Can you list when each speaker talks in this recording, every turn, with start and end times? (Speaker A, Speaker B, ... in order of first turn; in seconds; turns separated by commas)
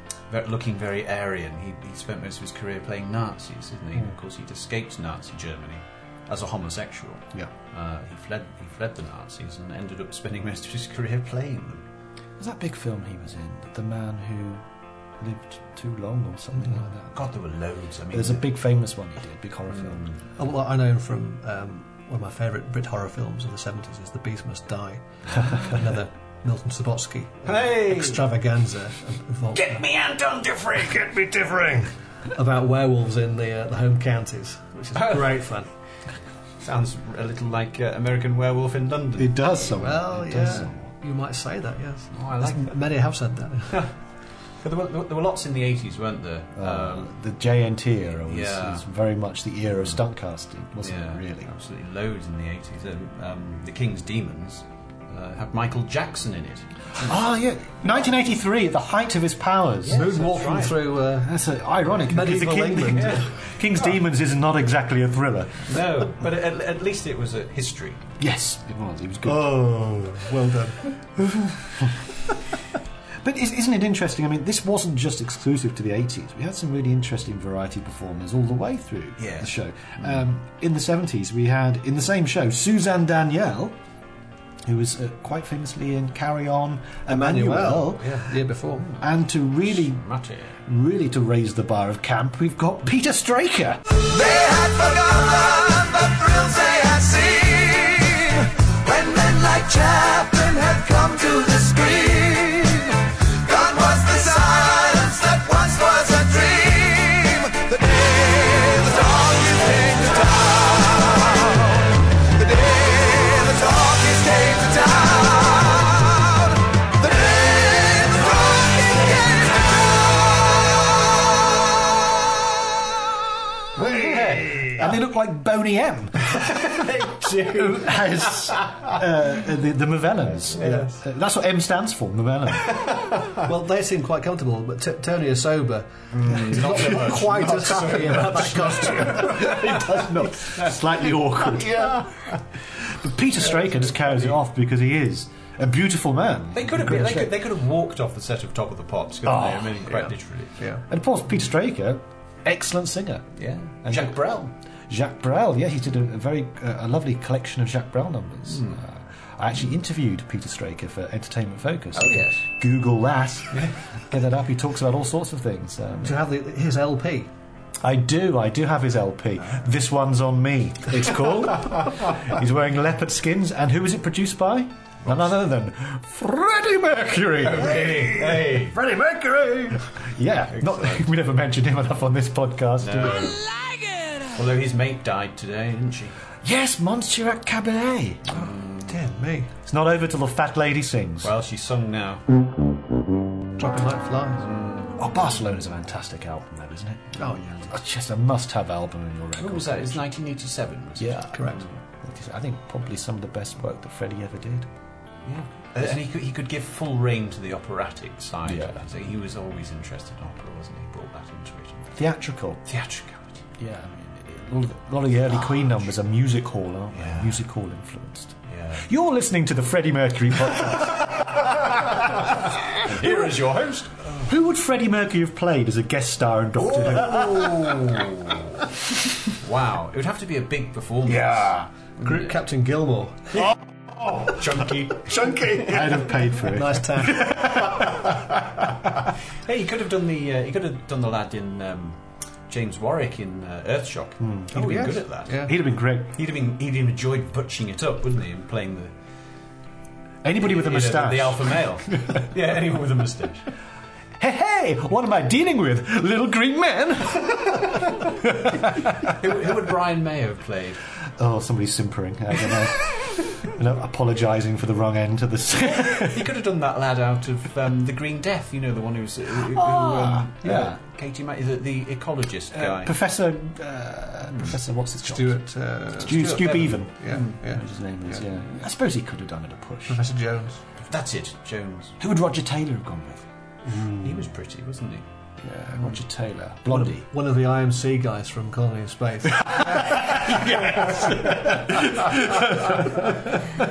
Speaker A: 0.2-11.8, Speaker B: 12.4-14.7, Speaker B: 15.2-17.3, Speaker A: 17.1-18.5, Speaker B: 18.1-20.1, Speaker A: 19.7-20.2, Speaker C: 20.4-29.8, Speaker A: 27.4-28.3, Speaker A: 29.5-31.1, Speaker C: 30.8-35.7, Speaker A: 35.0-35.4, Speaker A: 36.6-39.4, Speaker B: 39.2-40.8, Speaker C: 39.8-43.8, Speaker A: 42.1-42.8, Speaker A: 44.6-47.1, Speaker B: 46.6-51.5, Speaker A: 48.2-48.8, Speaker A: 50.8-57.2, Speaker B: 57.0-60.0, Speaker A: 59.8-60.9, Speaker C: 59.9-61.3, Speaker B: 61.2-65.9, Speaker C: 62.0-63.3, Speaker A: 62.9-64.0, Speaker A: 65.7-68.0, Speaker B: 68.2-70.3, Speaker C: 69.4-70.8, Speaker B: 71.2-72.0, Speaker B: 73.2-83.8, Speaker A: 79.2-80.2, Speaker B: 84.6-88.2, Speaker C: 87.1-88.8, Speaker B: 89.0-90.0, Speaker A: 89.7-90.6, Speaker B: 90.7-94.0, Speaker A: 105.7-106.1, Speaker A: 113.9-115.0, Speaker A: 117.0-119.0, Speaker C: 123.8-124.8, Speaker A: 123.8-124.9, Speaker B: 124.8-126.3, Speaker A: 126.2-129.0, Speaker B: 127.6-132.8, Speaker A: 130.5-131.0, Speaker C: 130.6-130.9, Speaker A: 132.7-133.4, Speaker C: 133.4-139.7, Speaker A: 136.1-139.9, Speaker B: 139.0-142.1, Speaker A: 141.5-142.3, Speaker B: 142.7-147.3, Speaker A: 143.6-144.4, Speaker A: 146.5-150.6, Speaker B: 149.2-150.1, Speaker C: 150.6-150.8, Speaker B: 150.9-166.2, Speaker A: 153.4-154.5, Speaker A: 158.5-158.8, Speaker A: 161.9-162.4, Speaker C: 166.0-167.3, Speaker B: 167.8-178.1, Speaker A: 175.0-175.3, Speaker A: 177.5-178.8, Speaker C: 177.8-179.8, Speaker B: 179.9-183.4, Speaker A: 180.5-181.1, Speaker A: 182.8-183.5, Speaker A: 184.3-186.2, Speaker B: 186.4-188.3, Speaker A: 188.3-189.0, Speaker C: 188.8-189.5, Speaker B: 189.7-191.3, Speaker A: 191.2-192.2, Speaker C: 193.6-194.4, Speaker A: 194.4-194.9, Speaker B: 195.0-200.0, Speaker A: 197.2-197.7, Speaker A: 199.4-201.7, Speaker B: 201.0-204.7, Speaker C: 201.4-201.6, Speaker A: 205.2-211.9, Speaker B: 208.5-208.7, Speaker B: 212.0-212.6, Speaker A: 212.7-213.5, Speaker B: 213.6-221.9, Speaker A: 216.9-217.4, Speaker A: 218.5-218.9, Speaker A: 221.2-224.2, Speaker B: 224.2-227.7, Speaker A: 226.6-228.6, Speaker A: 229.3-231.5, Speaker C: 232.0-233.5, Speaker A: 234.1-235.5, Speaker C: 235.0-237.4, Speaker B: 235.7-237.9, Speaker A: 237.5-237.8, Speaker A: 239.4-248.9, Speaker B: 244.2-244.7, Speaker C: 244.5-245.5, Speaker B: 245.4-246.2, Speaker B: 250.2-251.6, Speaker A: 250.4-253.4, Speaker B: 254.2-259.1, Speaker A: 259.0-260.8, Speaker B: 261.2-266.3, Speaker A: 265.6-272.9, Speaker B: 269.5-270.8, Speaker B: 272.6-275.4, Speaker C: 275.1-278.2, Speaker B: 275.9-280.0, Speaker A: 276.1-277.4, Speaker C: 279.9-280.6, Speaker A: 280.8-282.0, Speaker B: 282.0-283.2, Speaker C: 283.7-284.1, Speaker A: 284.0-285.1, Speaker C: 285.4-285.8, Speaker B: 285.7-287.1, Speaker C: 286.7-290.1, Speaker A: 290.2-292.7, Speaker B: 290.8-292.9